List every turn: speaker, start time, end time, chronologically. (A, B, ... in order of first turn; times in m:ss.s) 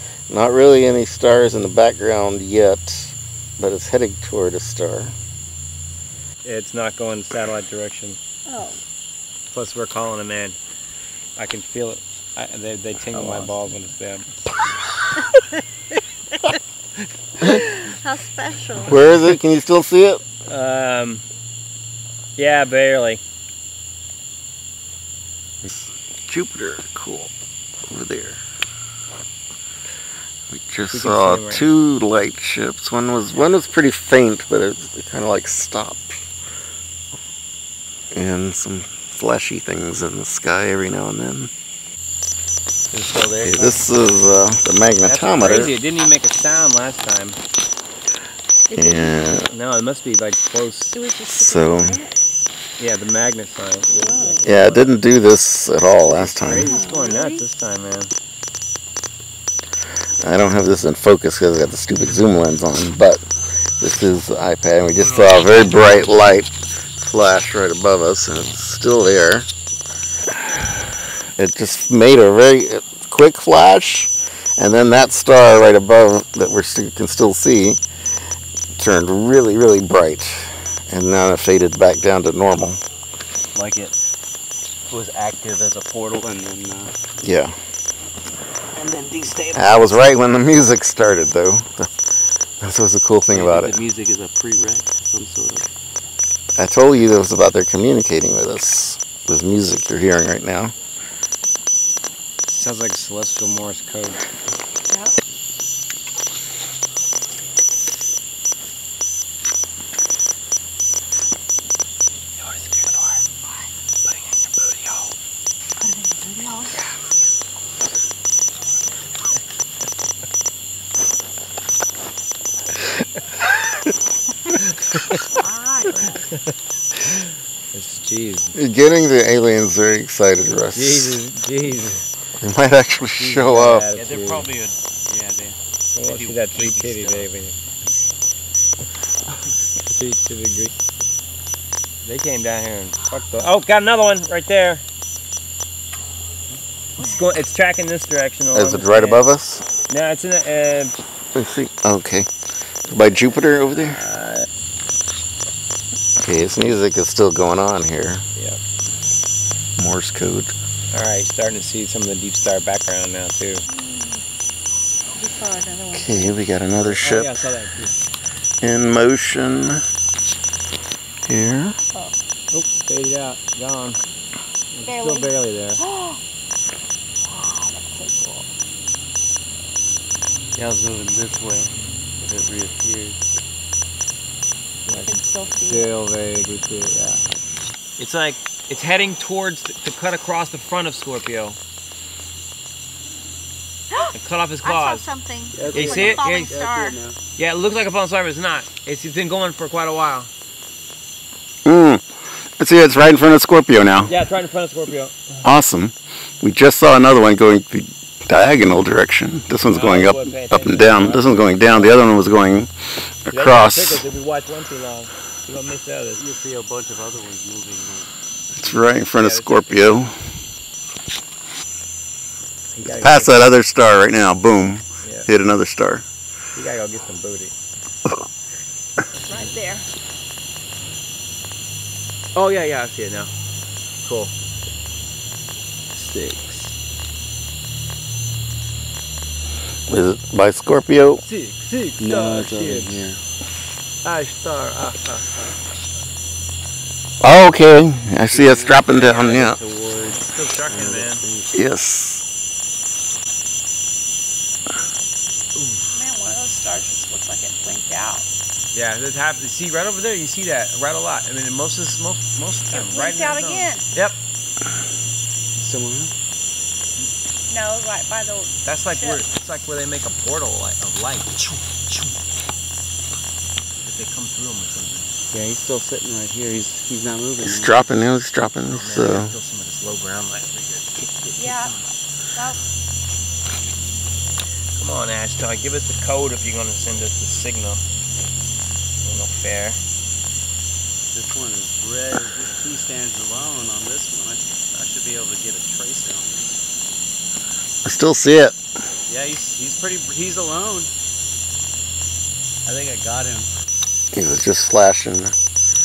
0:00.3-0:05.1 A
0:06.4-0:08.2 B
0:08.5-0:08.8 C
0:09.5-0:10.6 B
0:11.4-0:14.4 B
0:13.1-0:13.5 A
0:17.6-0:19.1 C
0:18.8-0:20.2 A
0:20.5-0:21.2 B
0:22.4-0:23.2 B
0:25.6-0:27.3 A
0:27.9-0:28.4 A
0:30.5-0:36.2 A
0:30.9-0:31.7 B
0:38.1-0:41.5 A
0:42.9-0:43.9 D
0:43.4-0:45.7 A
0:45.1-0:47.4 B
0:48.7-0:49.4 C
0:48.8-0:49.5 A
0:49.5-0:51.0 B
0:50.9-0:52.1 C
0:51.3-0:52.0 A
0:52.8-0:55.0 B
0:53.9-0:54.4 C
0:54.4-0:56.8 A
0:56.1-0:58.1 B
0:56.5-0:57.4 C
1:00.2-1:03.2 A
1:03.8-1:09.5 A
1:11.4-1:17.8 A
1:18.8-1:22.8 A
1:23.5-1:24.0 D
1:24.9-1:27.0 D
1:27.2-1:27.5 A
1:28.8-1:30.0 D
1:29.5-1:31.9 A
1:32.6-1:33.8 A
1:33.3-1:35.7 D
1:36.6-1:40.7 A
1:42.4-1:44.2 B
1:52.4-1:53.2 B
1:54.0-1:55.1 B
1:55.8-1:56.8 C
2:04.5-2:05.2 B
2:05.4-2:06.3 C
2:07.7-2:08.6 B
2:08.6-2:11.2 A
2:10.7-2:12.0 B
2:12.4-2:13.9 A
2:13.2-2:14.5 B
2:14.0-2:17.3 D
2:16.0-2:17.6 B
2:19.9-2:20.7 B
2:22.0-2:24.8 B
2:27.0-2:29.3 B
2:28.5-2:29.7 A
2:29.9-2:31.0 B
2:31.3-2:32.3 A
2:32.9-2:34.0 A
2:33.8-2:34.5 B
2:36.2-2:38.2 A
2:39.8-2:40.5 A
2:40.9-2:43.7 B
2:43.7-2:44.2 C
2:45.1-2:46.4 C
2:45.9-2:47.3 A
2:46.8-2:48.0 B
2:48.6-2:49.8 A
2:51.2-2:51.8 A
2:52.5-2:54.0 B
2:54.7-2:55.8 B
2:54.8-2:56.2 C
2:57.2-2:58.5 C
3:00.6-3:03.2 D
3:04.8-3:07.2 B
3:04.9-3:05.9 C
3:08.0-3:11.6 B
3:14.0-3:17.0 C
3:14.2-3:15.0 B
3:15.5-3:17.2 D
3:15.7-3:16.6 B
3:17.4-3:20.3 B
3:21.7-3:22.0 A
3:22.6-3:24.1 A
3:24.0-3:25.4 B
3:25.4-3:32.7 A
3:29.7-3:32.1 B
3:33.3-3:34.0 A
3:33.3-3:36.2 B
3:36.2-3:39.0 D
3:38.6-3:40.2 A
3:39.2-3:40.0 B
3:42.7-3:43.5 B
3:43.0-3:46.1 A
3:45.0-3:45.3 B
3:46.6-3:47.6 B
3:49.2-3:49.9 C
3:52.4-3:53.3 B
3:54.0-3:54.3 B
3:55.9-3:56.7 B
3:59.9-4:01.2 A
4:01.2-4:03.1 B
4:02.0-4:03.2 D
4:04.0-4:05.3 B
4:07.2-4:09.6 A
4:08.3-4:11.5 D
4:10.1-4:11.2 B
4:11.5-4:12.2 A
4:15.6-4:15.9 B
4:15.9-4:18.3 C
4:18.7-4:24.2 B
4:22.7-4:23.9 C
4:25.6-4:26.1 D
4:27.5-4:29.2 C
4:28.6-4:31.5 B
4:33.8-4:35.1 B
4:35.3-4:37.9 D
4:37.4-4:39.4 A
4:38.7-4:41.6 B
4:41.3-4:41.7 C
4:44.8-4:47.8 B
4:49.0-4:49.8 B
4:51.1-4:56.6 D
4:57.8-4:58.6 A
4:59.1-5:00.9 D
5:02.7-5:03.5 D
5:04.1-5:05.3 A